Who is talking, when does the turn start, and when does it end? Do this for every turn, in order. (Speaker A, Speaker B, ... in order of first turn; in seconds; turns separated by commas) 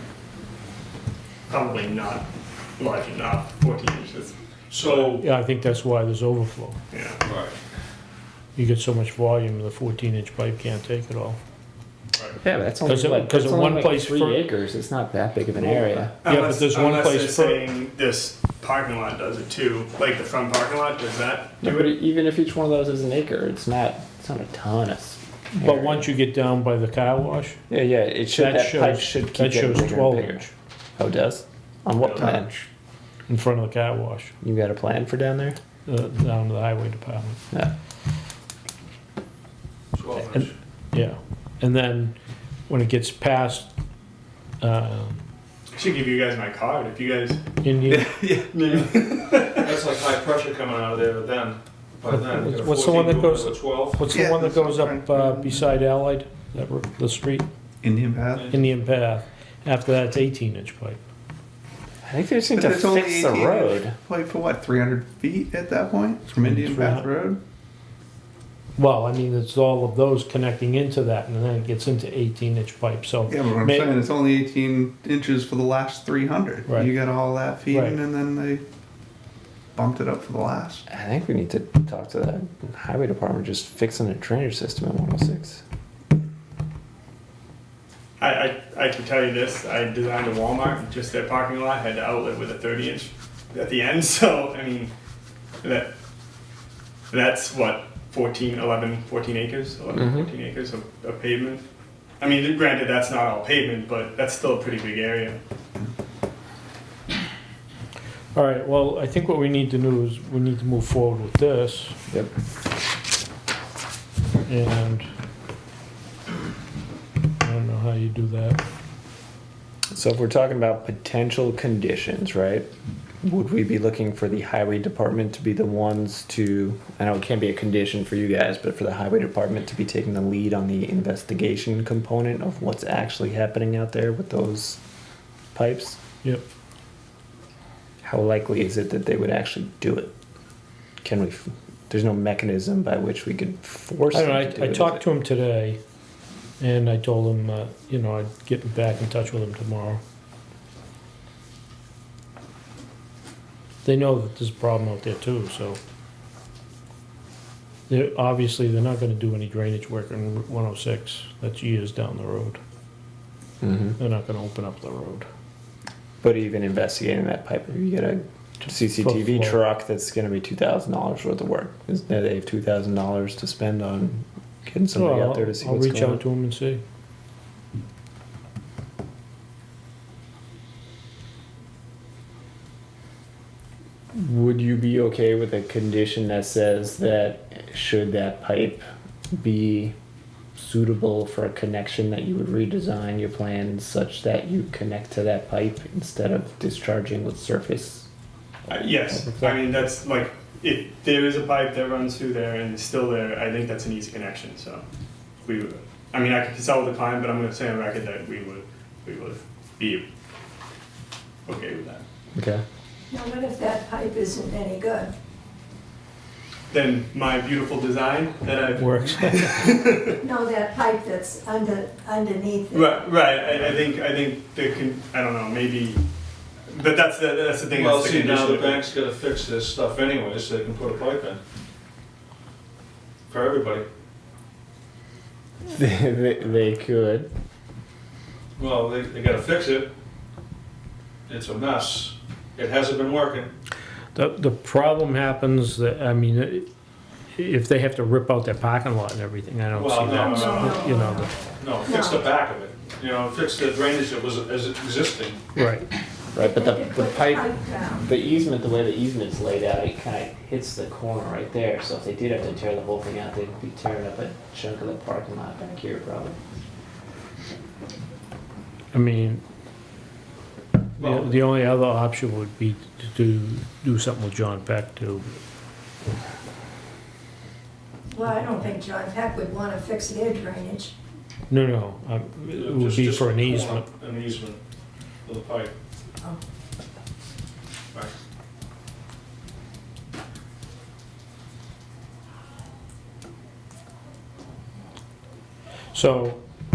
Speaker A: 1.5-2.2, Speaker A: 2.8-5.2, Speaker B: 4.7-5.2, Speaker C: 5.2-6.8, Speaker A: 6.9-7.2, Speaker B: 7.2-7.5, Speaker C: 8.6-11.4, Speaker D: 12.4-16.1, Speaker C: 12.8-14.4, Speaker A: 16.2-21.9, Speaker C: 16.2-17.6, Speaker D: 21.6-26.1, Speaker C: 25.6-27.6, Speaker D: 27.7-32.5, Speaker C: 28.4-30.5, Speaker B: 32.0-32.3, Speaker C: 33.3-34.3, Speaker D: 34.4-35.6, Speaker C: 35.9-37.4, Speaker B: 39.9-40.5, Speaker C: 40.3-42.2, Speaker C: 42.7-43.7, Speaker C: 44.6-45.2, Speaker A: 45.8-47.4, Speaker C: 47.6-48.0, Speaker E: 47.9-48.6, Speaker A: 48.5-49.8, Speaker B: 49.5-54.1, Speaker C: 52.1-57.5, Speaker E: 54.1-55.7, Speaker E: 57.8-58.5, Speaker B: 58.3-58.6, Speaker C: 58.5-61.0, Speaker D: 62.0-63.9, Speaker E: 62.5-67.4, Speaker C: 66.4-67.1, Speaker C: 68.8-73.9, Speaker E: 73.3-78.6, Speaker C: 77.7-78.0, Speaker E: 79.8-80.9, Speaker D: 80.9-85.6, Speaker A: 88.2-94.9, Speaker A: 95.6-95.9, Speaker A: 97.1-101.6, Speaker D: 100.0-100.3, Speaker A: 102.2-105.4, Speaker C: 108.3-112.0, Speaker C: 114.5-115.0, Speaker C: 117.4-118.6, Speaker D: 119.9-122.7, Speaker D: 123.2-134.8, Speaker D: 135.5-136.0, Speaker D: 138.0-140.1, Speaker D: 141.0-145.0, Speaker C: 144.1-145.8, Speaker C: 146.6-150.0, Speaker C: 153.8-155.8, Speaker C: 157.9-162.6, Speaker D: 163.6-164.0, Speaker C: 164.0-165.2, Speaker D: 166.2-176.2, Speaker C: 168.9-169.6, Speaker C: 174.9-176.8, Speaker D: 184.1-189.9, Speaker D: 190.5-198.1, Speaker A: 198.7-204.8, Speaker D: 198.8-199.6, Speaker A: 205.4-210.0, Speaker A: 211.5-212.0, Speaker D: 212.3-212.6, Speaker F: 213.1-215.1, Speaker A: 216.7-220.2, Speaker C: 218.8-219.8, Speaker F: 220.2-223.0, Speaker A: 222.7-226.0, Speaker A: 226.7-228.8, Speaker B: 227.7-231.4, Speaker B: 233.3-233.9, Speaker D: 235.7-237.3, Speaker B: 238.6-239.9, Speaker B: 241.3-243.5, Speaker C: 244.1-246.7, Speaker C: 247.3-251.3, Speaker B: 249.7-250.9, Speaker F: 250.1-251.3, Speaker B: 251.6-255.4, Speaker F: 251.8-252.2, Speaker C: 255.6-255.9, Speaker D: 256.3-266.4, Speaker F: 256.4-258.1, Speaker C: 268.9-269.4, Speaker C: 271.0-275.3, Speaker B: 271.0-271.4, Speaker F: 278.1-280.9, Speaker C: 281.5-283.8, Speaker B: 282.5-284.6, Speaker B: 285.2-285.7, Speaker C: 295.9-296.4